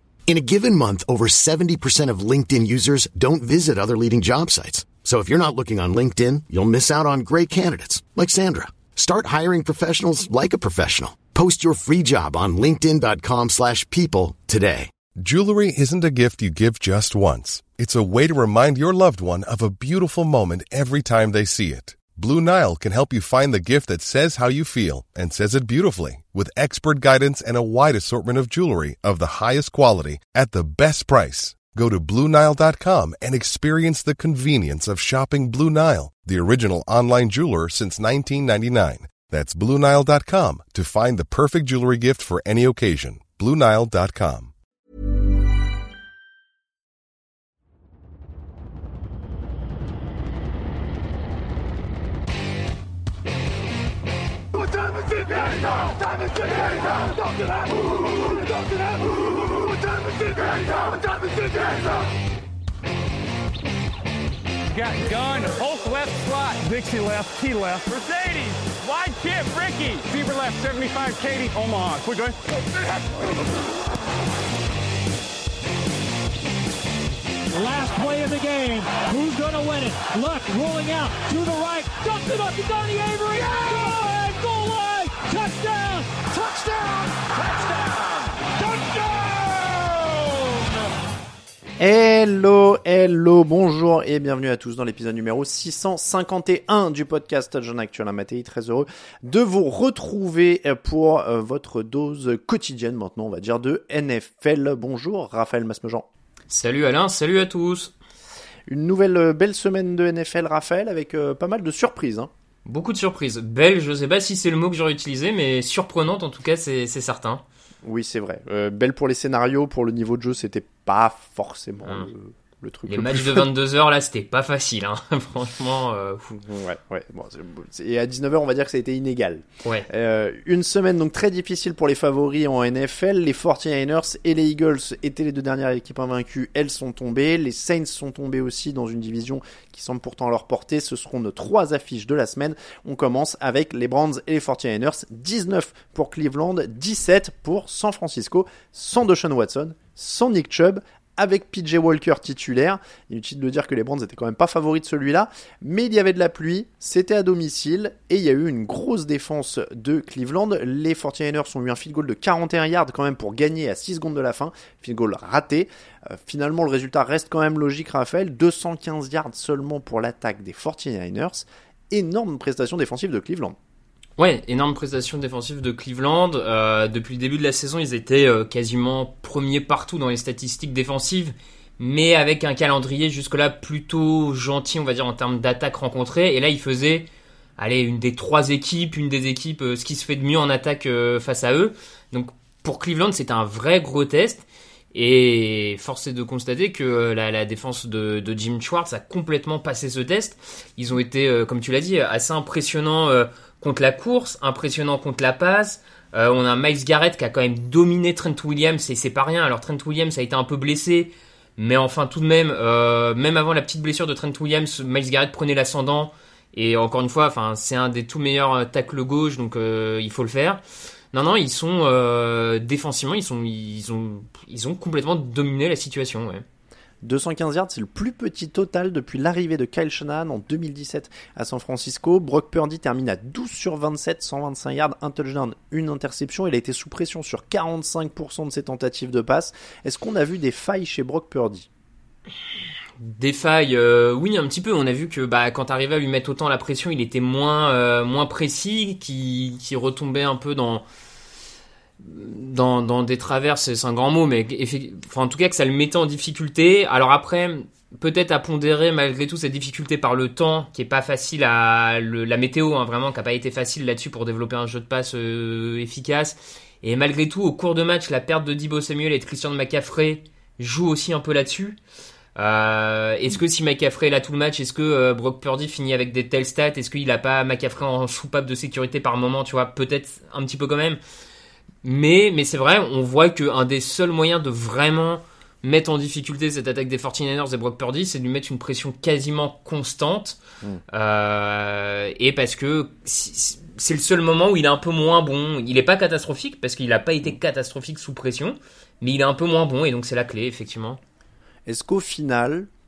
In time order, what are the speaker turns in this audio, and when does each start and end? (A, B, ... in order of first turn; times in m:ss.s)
0:00.3-0:14.9 A
0:15.2-0:44.5 B
1:04.7-1:12.6 C
1:17.5-1:30.2 D
1:31.8-1:46.1 E
1:46.5-1:47.9 F
1:48.7-1:52.3 E
1:52.6-1:57.4 F
1:57.8-2:03.5 E
2:02.9-2:06.4 F
2:06.3-2:53.6 E
2:54.2-3:40.6 F
3:41.1-3:46.4 F
3:47.0-4:01.7 E
4:03.0-4:10.8 F
4:12.0-4:31.8 F
4:32.4-4:41.0 F
4:41.8-4:50.4 F
4:50.9-5:01.0 F
5:01.6-5:02.7 E